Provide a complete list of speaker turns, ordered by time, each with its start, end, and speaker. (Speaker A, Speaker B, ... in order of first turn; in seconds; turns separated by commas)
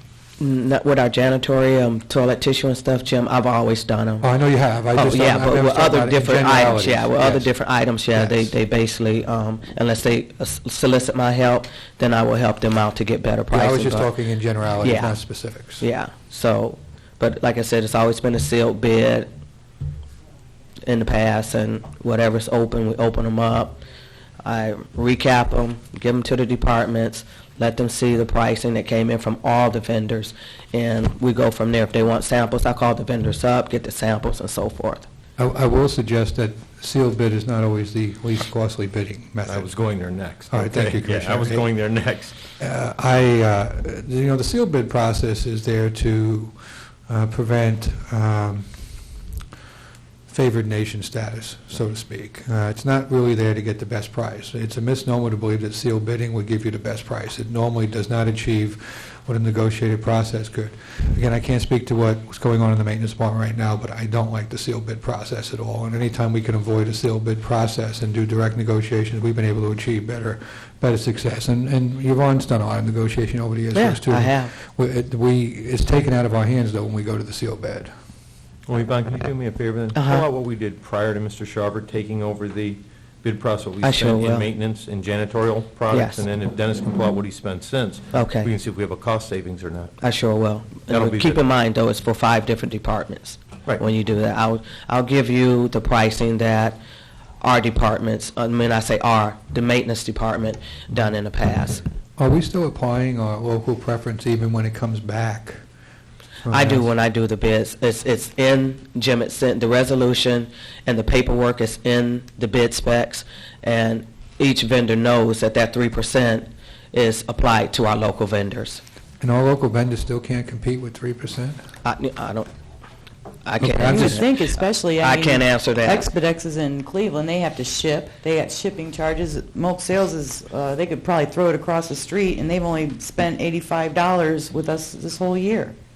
Speaker A: 0.4-4.2, Speaker B: 4.2-7.5, Speaker A: 4.9-14.1, Speaker B: 8.1-8.5, Speaker B: 13.5-15.8, Speaker A: 14.8-15.2, Speaker A: 15.8-19.3, Speaker A: 20.8-23.8, Speaker A: 24.4-35.1, Speaker B: 35.4-39.7, Speaker C: 39.5-42.4, Speaker B: 40.5-41.6, Speaker B: 42.6-48.8, Speaker B: 50.3-77.9, Speaker A: 73.7-74.5, Speaker C: 78.7-90.0, Speaker A: 79.9-80.2, Speaker A: 83.8-84.5, Speaker A: 85.9-86.2, Speaker A: 88.1-88.5, Speaker A: 90.0-96.8, Speaker C: 90.9-91.4, Speaker A: 97.4-101.8, Speaker B: 102.2-105.6, Speaker B: 106.5-106.9, Speaker A: 106.5-118.8, Speaker B: 119.2-121.6, Speaker A: 121.8-122.5, Speaker A: 123.4-124.3, Speaker B: 123.6-124.3, Speaker D: 123.8-135.7, Speaker A: 125.0-126.1